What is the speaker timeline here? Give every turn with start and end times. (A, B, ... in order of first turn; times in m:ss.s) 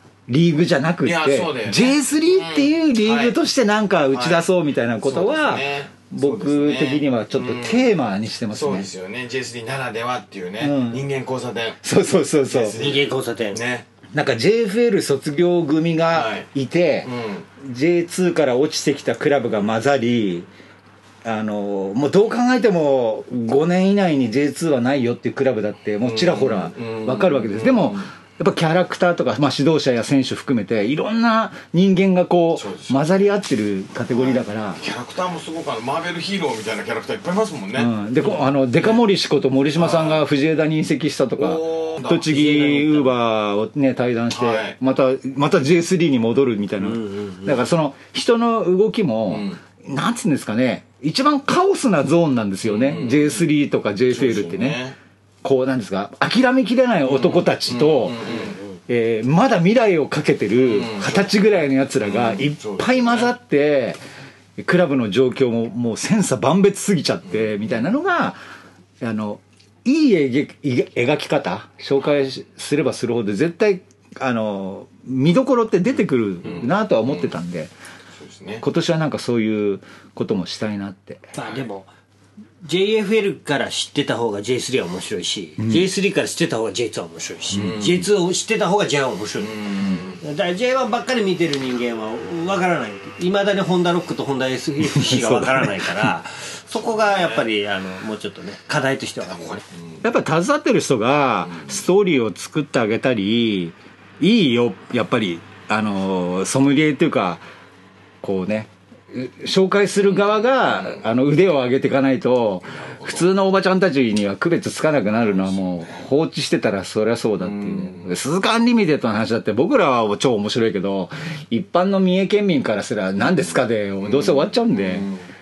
0:00.3-0:08.9 A
0:01.0-0:03.4 B
0:04.1-0:04.4 B
0:05.0-0:07.9 B
0:08.5-0:11.8 B
0:10.6-0:11.1 A
0:11.8-0:12.8 A
0:12.4-0:13.9 B
0:12.8-0:13.6 C
0:14.1-0:20.5 A
0:16.1-0:16.5 B
0:17.0-0:17.4 B
0:21.2-0:34.8 A
0:26.0-0:28.1 B
0:32.6-0:33.4 B
0:34.1-0:39.0 B
0:37.8-0:54.8 A
0:39.8-0:40.2 B
0:41.4-0:42.3 B
0:42.2-0:43.2 C
0:44.3-0:44.8 B
0:46.8-0:47.6 C
0:49.3-0:49.6 B
0:52.6-0:53.4 B
0:54.1-0:55.0 B
0:55.4-0:58.2 A
0:57.1-0:58.6 B
0:58.9-1:04.0 A
1:00.6-1:03.3 B
1:04.6-1:08.4 A
1:09.0-1:17.7 A
1:16.4-1:17.3 B
1:18.2-1:18.6 B
1:18.6-1:21.3 A
1:21.3-1:21.9 C
1:22.6-1:39.6 C
1:25.6-1:25.9 A
1:27.5-1:28.1 B
1:29.4-1:30.2 B
1:34.9-1:36.1 A
1:36.7-1:37.4 B
1:39.4-1:40.0 B
1:40.0-1:47.4 A
1:48.2-2:05.1 A
1:50.2-1:51.0 B
1:52.7-1:53.3 B
1:55.2-1:56.1 B
1:57.4-1:58.2 B
2:04.0-2:05.3 B